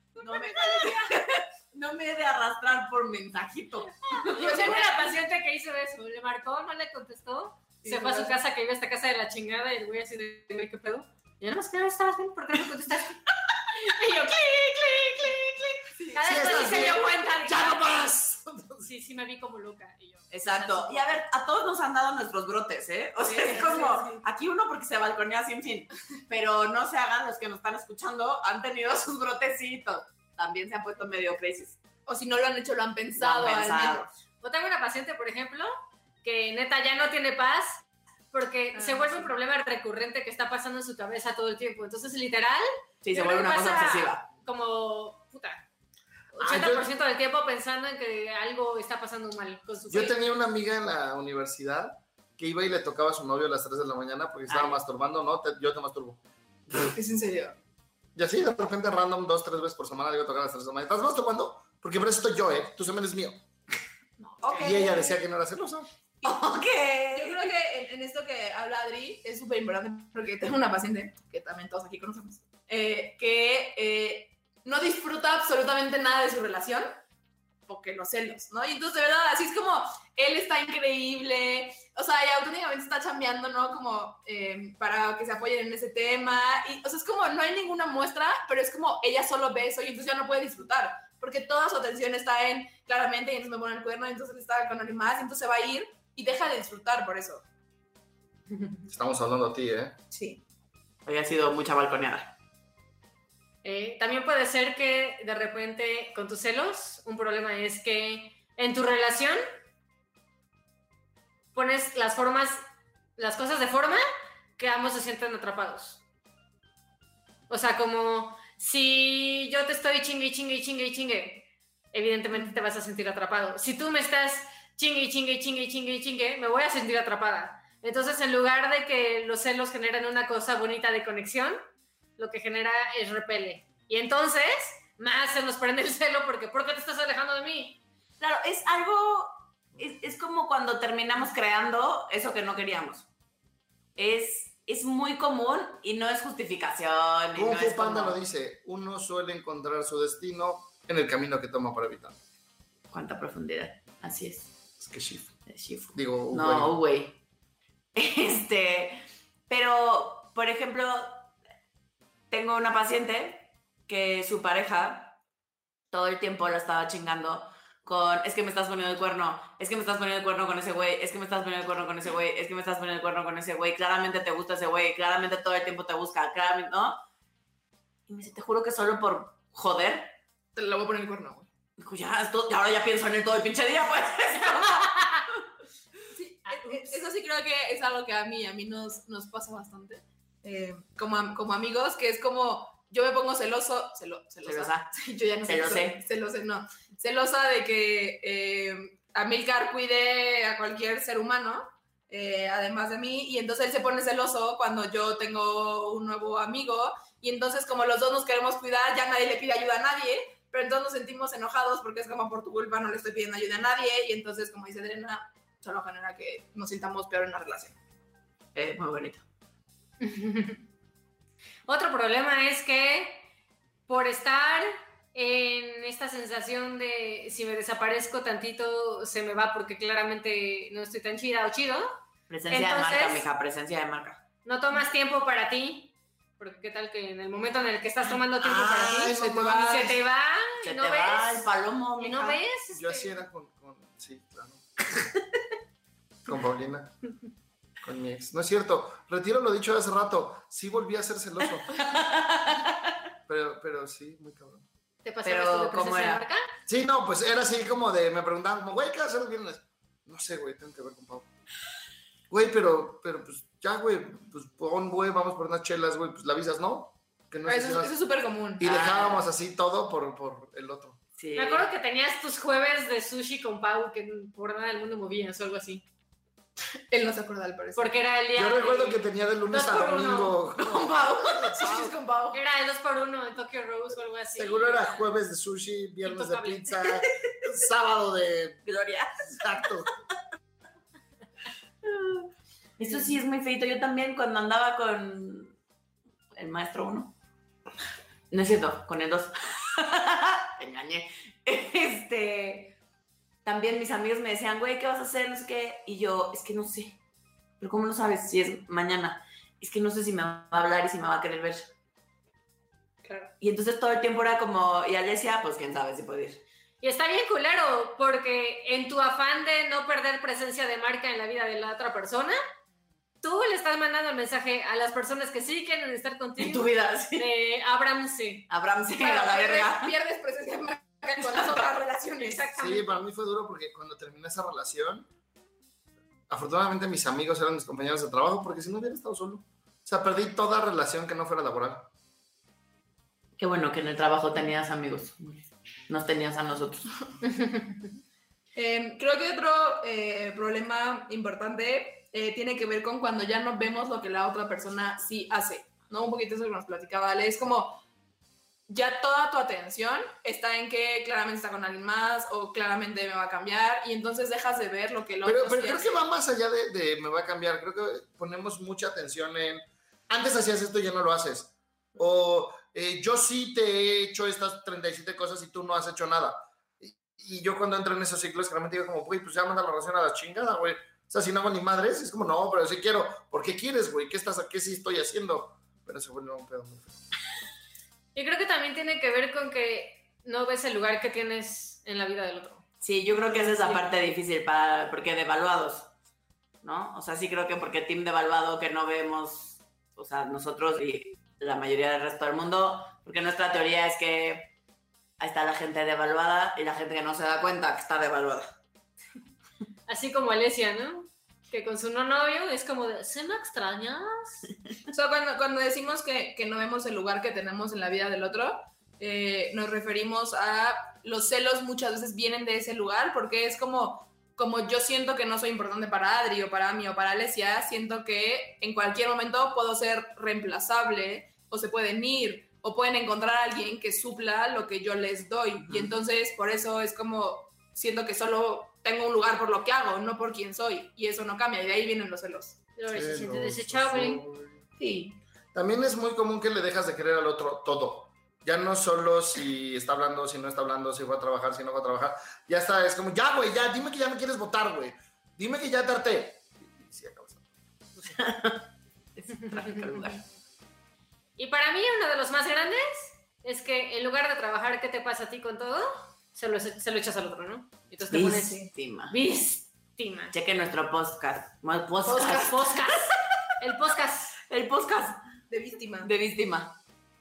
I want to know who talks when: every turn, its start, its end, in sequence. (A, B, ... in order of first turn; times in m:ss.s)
0:00.2-0:04.8 A
0:00.5-0:01.0 B
0:04.1-0:18.0 C
0:04.4-0:05.0 B
0:07.8-0:08.4 B
0:16.0-0:16.8 B
0:16.2-0:18.9 D
0:18.8-0:21.2 C
0:20.3-0:31.8 A
0:23.3-0:24.2 B
0:23.4-0:23.9 C
0:32.1-0:34.0 B
0:33.2-0:34.2 A
0:34.4-0:35.7 C
0:36.2-0:45.6 C
0:38.7-0:39.3 B
0:43.0-0:44.2 A
0:46.3-0:50.2 C
0:46.4-0:46.9 D
0:49.9-0:56.2 D
0:54.5-0:54.8 A
0:56.9-0:57.6 B
0:58.2-1:03.4 D
1:04.4-1:05.2 B
1:04.6-1:05.9 D
1:06.2-1:07.4 A
1:07.1-1:17.0 B
1:17.7-1:37.4 B
1:38.9-1:39.9 D
1:40.1-1:40.4 B
1:41.0-1:42.3 A
1:43.6-1:49.4 C
1:51.5-1:52.6 C
1:53.2-1:54.0 C
1:54.6-1:56.0 C
1:57.5-2:11.6 C
2:12.2-2:17.8 C
2:18.2-2:23.1 A
2:24.0-2:28.2 A
2:27.3-2:32.2 D
2:32.9-2:34.5 A
2:34.8-2:35.3 D
2:35.5-2:37.2 A
2:35.9-2:36.7 D
2:37.9-2:41.3 A
2:42.3-2:45.2 A
2:45.9-2:57.0 A
2:58.1-3:00.2 A
3:00.5-3:01.5 B
3:01.8-3:05.0 A
3:06.1-3:37.7 B
3:06.5-3:06.9 C
3:14.4-3:14.9 A
3:15.4-3:16.0 A
3:38.5-3:39.2 A
3:40.0-3:40.6 C
3:41.7-3:43.2 C
3:43.9-3:51.9 C
3:52.3-3:54.2 A
3:52.5-3:53.2 C
3:54.4-4:03.2 C
3:58.4-3:59.9 D
3:59.2-3:59.9 B
4:00.6-4:02.4 A
4:02.7-4:05.1 D
4:06.2-4:06.9 D
4:07.8-4:11.7 D
4:11.7-4:12.9 A
4:13.3-4:14.6 D
4:15.0-4:16.4 C
4:15.2-4:16.2 A
4:16.7-4:21.3 D
4:22.3-4:27.9 D
4:27.5-4:28.7 B
4:28.6-4:31.0 D
4:28.6-4:29.2 A
4:31.2-4:31.6 A
4:31.4-4:35.8 C
4:36.9-4:37.9 B
4:37.7-4:40.4 C
4:38.3-4:41.9 D
4:40.6-4:42.4 B
4:42.3-4:45.1 C
4:44.3-4:48.6 D
4:46.0-4:46.8 C
4:48.6-4:49.4 A
4:49.3-4:49.9 D
4:51.8-4:52.3 A
4:52.8-4:55.5 A
4:56.3-4:57.1 A
4:58.3-5:02.8 A
5:03.4-5:07.0 A
5:07.6-5:11.6 A
5:13.0-5:13.3 B
5:13.4-5:16.4 A
5:16.8-5:22.4 C
5:23.2-5:28.5 C
5:26.4-5:27.3 A
5:28.5-5:29.9 A
5:29.0-5:32.5 B
5:31.2-5:31.7 A
5:32.2-5:32.9 C
5:32.6-5:35.0 D
5:36.3-5:41.9 D
5:43.4-5:46.9 A
5:48.6-5:57.8 B
5:58.7-6:06.0 B
6:05.2-6:27.0 D
6:28.1-6:32.6 C
6:32.8-6:35.9 A
6:36.6-6:44.5 A
6:45.2-6:48.5 A
6:49.9-6:54.4 C
6:54.9-7:22.6 B
7:15.7-7:16.0 A
7:22.8-7:24.2 C
7:22.9-7:24.6 D
7:24.8-7:25.2 B
7:25.5-7:37.4 D
7:38.1-7:40.2 A
7:41.4-7:50.3 C
7:48.1-7:49.1 A
7:50.3-7:53.1 A
7:52.1-7:52.6 B
7:52.2-7:54.3 C
7:54.5-7:55.2 A
7:55.5-7:56.1 B
7:56.0-7:56.8 A